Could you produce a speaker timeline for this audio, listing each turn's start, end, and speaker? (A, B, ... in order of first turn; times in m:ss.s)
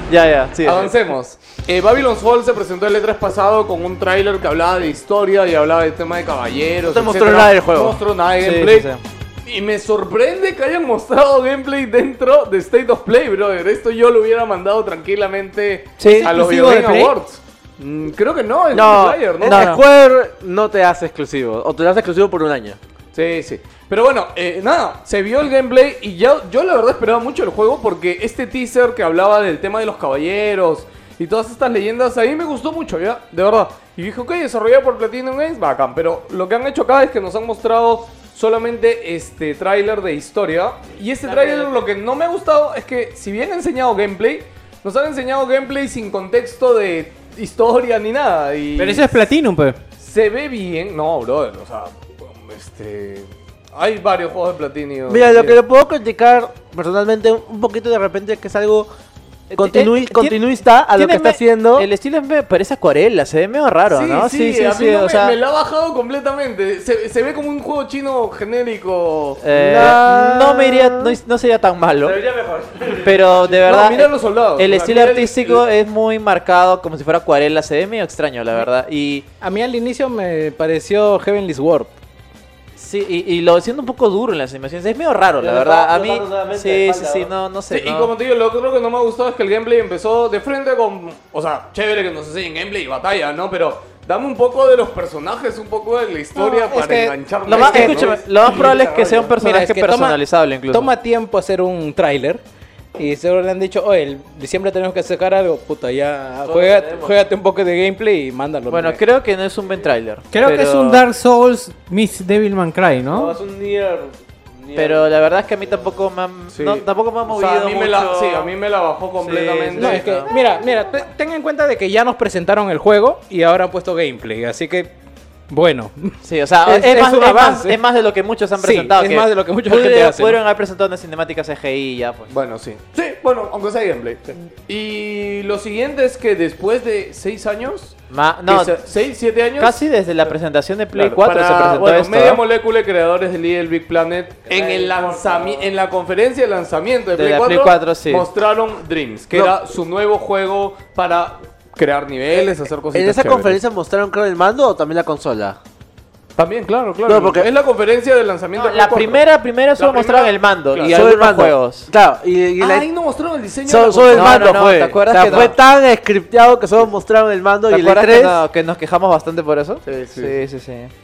0:00.1-0:00.9 A
0:00.6-0:08.9 B
0:06.8-0:08.0 C
0:08.4-0:09.0 A
0:09.4-0:19.7 B
0:16.0-0:16.3 A
0:16.0-0:17.2 D
0:18.7-0:22.8 C
0:19.4-0:19.8 A
0:23.1-0:49.1 B
0:48.8-0:49.8 D
0:50.0-0:55.6 B
0:55.1-0:58.9 C
0:59.5-1:00.4 A
0:59.6-1:01.9 C
1:00.9-1:05.4 A
1:03.9-1:09.4 B
1:09.4-1:12.2 A
1:09.5-1:11.1 C
1:12.0-1:13.2 C
1:13.0-1:19.3 A
1:13.5-1:15.6 B
1:19.4-1:22.0 E
1:22.8-1:28.1 A
1:25.4-1:27.3 C
1:27.7-1:38.5 B
1:36.4-1:38.0 E
1:37.4-1:40.9 A
1:38.5-1:39.3 C
1:39.4-1:42.4 E
1:43.0-1:49.0 E
1:46.4-1:47.1 C
1:48.7-1:51.1 A
1:50.3-1:53.4 D
1:53.1-1:55.2 C
1:54.8-1:58.5 A
1:56.5-2:00.2 B
1:59.2-2:00.3 A
1:59.8-2:04.9 E
2:05.5-2:07.8 E
2:06.2-2:12.3 A
2:08.6-2:10.4 E
2:12.3-2:19.8 B
2:18.1-2:18.8 A
2:19.6-2:22.4 A
2:20.9-2:33.6 B
2:24.5-2:25.7 C
2:27.1-2:28.3 A
2:32.9-2:35.6 C
2:36.4-2:39.2 B
2:37.1-2:37.5 C
2:38.6-2:41.9 A
2:39.8-2:41.2 B
2:40.9-2:42.9 C
2:42.6-2:44.6 B
2:43.7-2:48.4 C
2:44.1-2:45.6 A
2:47.7-2:50.9 A
2:49.9-2:50.4 B